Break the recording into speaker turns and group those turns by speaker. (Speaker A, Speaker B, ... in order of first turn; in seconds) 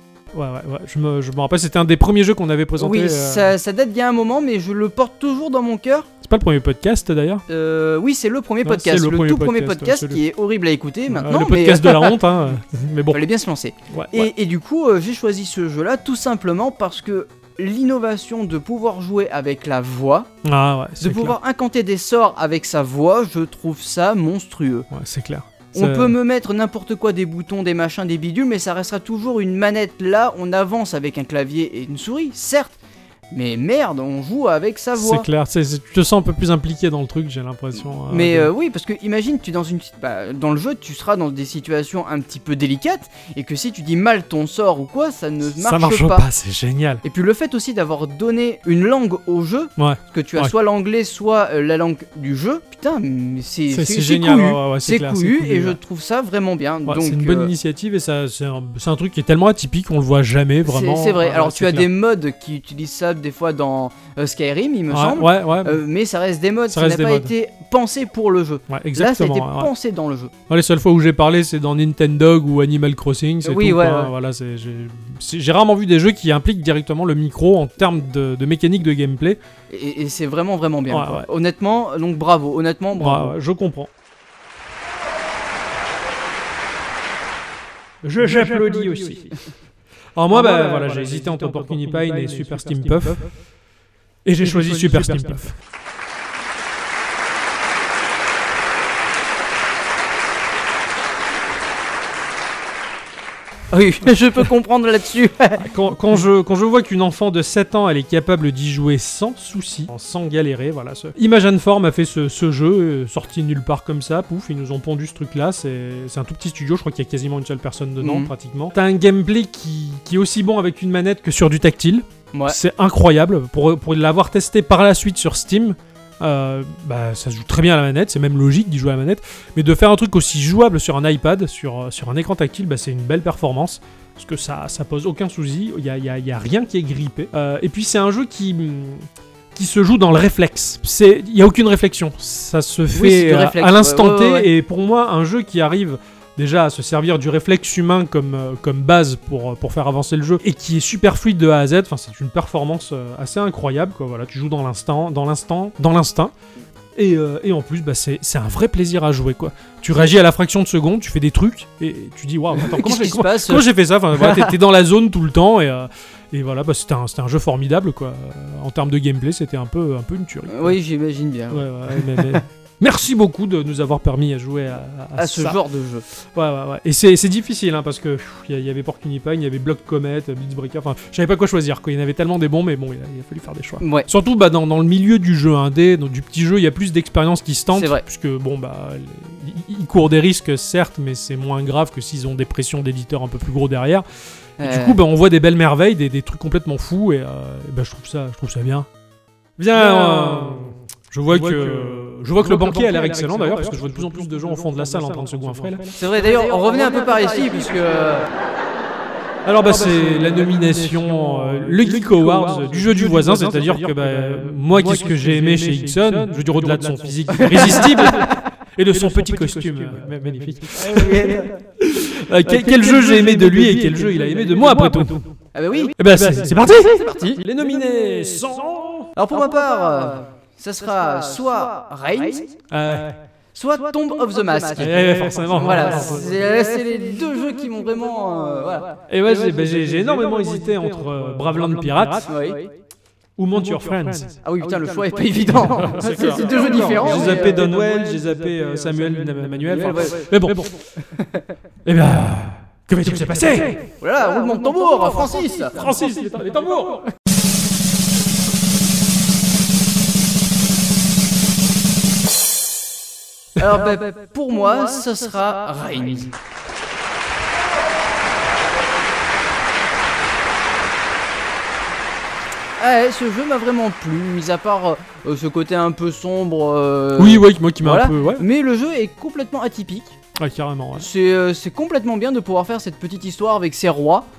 Speaker A: 0.3-3.5, 6.2-7.4, 8.6-10.2, 11.1-13.2, 13.9-14.3, 20.4-21.4, 24.9-26.1, 35.0-38.5, 45.5-47.0, 49.8-50.5, 53.7-55.8, 56.9-61.9, 64.9-65.8, 66.7-67.3, 68.7-69.7, 70.5-79.4, 80.9-81.3, 83.0-83.9, 88.0-89.4, 90.2-93.3, 94.2-95.5, 105.6-156.3, 156.9-170.8, 171.5-175.6, 176.3-194.0, 194.6-198.9, 199.6-205.9, 209.4-225.3, 226.0-229.1, 232.7-233.2, 234.8-236.3, 239.1-242.3, 243.4-244.4, 245.6-250.9, 251.8-253.9, 255.7-257.1, 277.2-278.4, 280.4-281.1
Speaker B: 2.8-6.1, 7.5-12.2, 13.1-20.3, 21.0-24.9, 25.7-32.8, 33.3-35.2, 38.1-46.2, 47.0-57.5, 60.6-70.3, 73.4-74.1, 79.7-83.3, 103.7-105.6, 118.0-118.3, 142.9-144.5, 162.6-164.5, 170.5-172.4, 175.2-176.0, 183.8-184.1, 187.7-188.0, 194.6-195.0, 206.0-208.3, 217.7-218.4, 220.8-221.6, 225.5-226.0, 226.8-227.4, 229.2-232.6, 233.5-239.0, 242.3-242.7, 244.4-247.6, 249.7-251.4, 254.0-255.8, 263.6-266.3, 272.8-280.1, 281.0-284.3